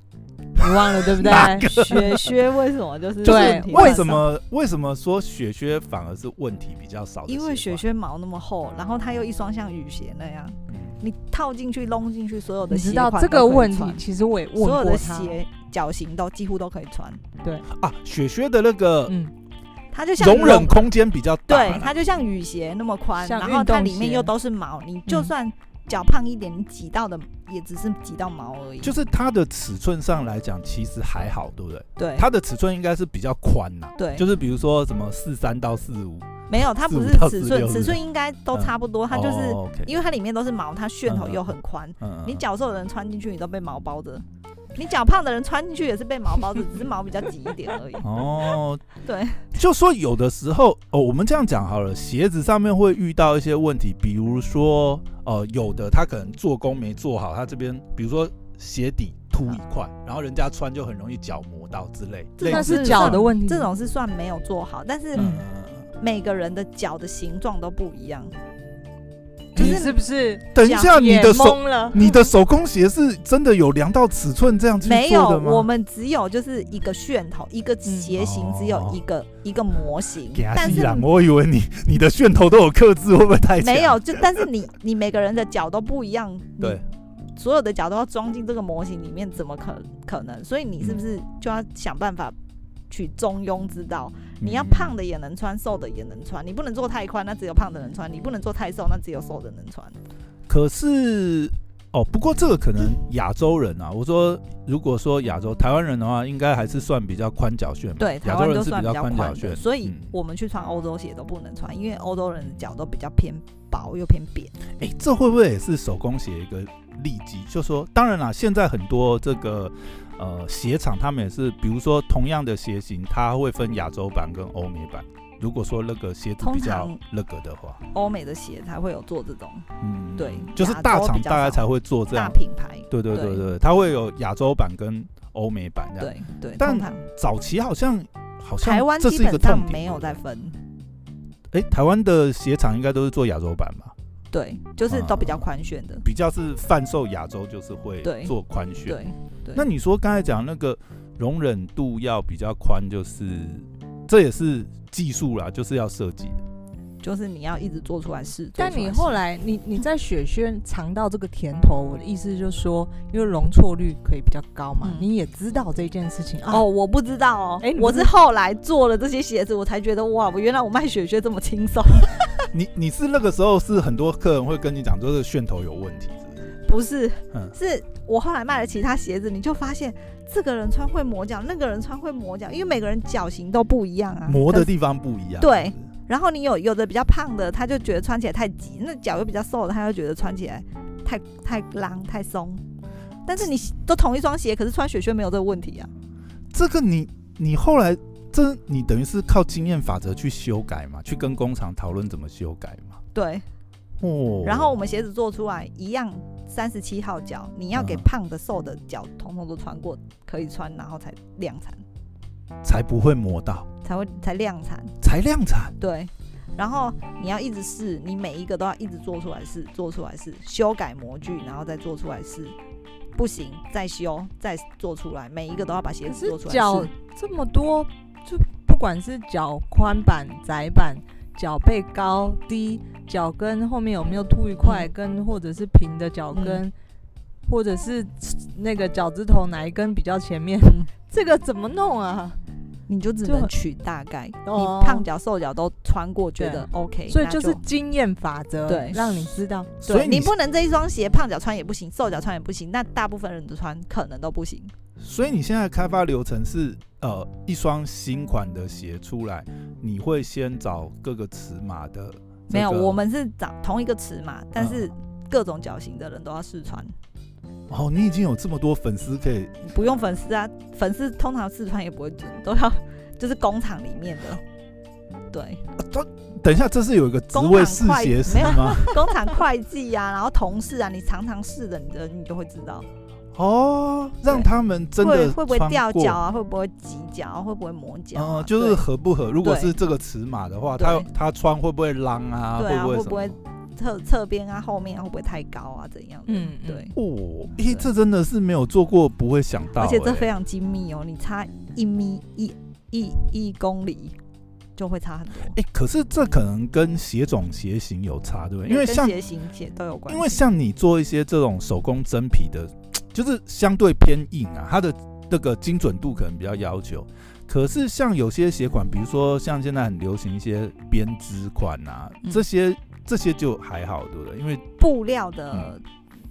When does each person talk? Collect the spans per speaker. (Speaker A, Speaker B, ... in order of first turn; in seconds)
Speaker A: 0.5-2.0, 3.2-4.2, 12.7-15.4, 19.1-19.3, 23.2-24.3, 25.1-25.3, 62.4-63.7, 65.2-65.4, 69.5-72.2, 158.6-166.7, 167.6-168.1, 226.0-236.7, 237.5-242.4, 243.2-243.5, 244.4-245.1, 246.4-249.7, 296.3-296.9
Speaker B: 0.6-2.3, 3.2-7.8, 17.7-19.1, 20.2-21.9, 28.8-38.0, 38.5-39.9, 41.0-42.4, 48.0-48.8, 49.5-63.3, 65.1-65.9, 69.5-69.9, 70.5-75.7, 78.1-79.0, 80.3-84.5, 94.4-95.0, 100.5-110.1, 114.7-127.8, 129.8-132.4, 132.9-140.2, 141.5-143.9, 144.9-145.4, 146.0-149.0, 149.5-156.4, 172.5-176.5, 184.2-185.9, 196.5-203.0, 204.0-204.7, 207.7-208.1, 212.6-213.7, 215.0-215.8, 249.8-250.3, 255.0-263.0, 264.6-264.9, 267.7-269.6, 275.8-279.4, 283.3-286.2, 288.1-293.4, 296.9-300.3, 305.5-309.1, 310.1-324.6
Speaker C: 1.2-4.2, 7.3-14.0, 14.6-17.2, 19.9-20.9, 21.5-28.9, 32.0-32.3, 34.0-34.2, 36.5-48.1, 49.0-49.5, 62.4-65.3, 66.0-68.3, 69.5-70.0, 70.6-70.9, 74.8-81.0, 83.6-86.8, 87.3-92.3, 92.9-100.0, 108.0-114.5, 126.4-127.0, 127.9-133.4, 136.0-137.0, 138.6-140.6, 144.3-146.0, 148.0-148.3, 148.8-149.7, 157.0-159.2, 164.8-165.1, 166.5-172.5, 176.7-184.7, 185.4-192.6, 193.2-195.9, 203.1-203.4, 204.4-211.8, 213.8-214.9, 215.8-222.6, 223.2-226.9, 234.6-234.9, 236.3-236.6, 240.6-240.9, 242.9-247.6, 248.7-249.2, 249.8-254.7, 262.5-266.9, 269.6-274.4, 275.3-275.6, 277.3-282.9, 284.3-288.8, 289.4-289.7, 290.8-291.1, 292.6-296.9, 299.8-304.1, 304.8-305.6, 308.6-310.4, 324.8-325.8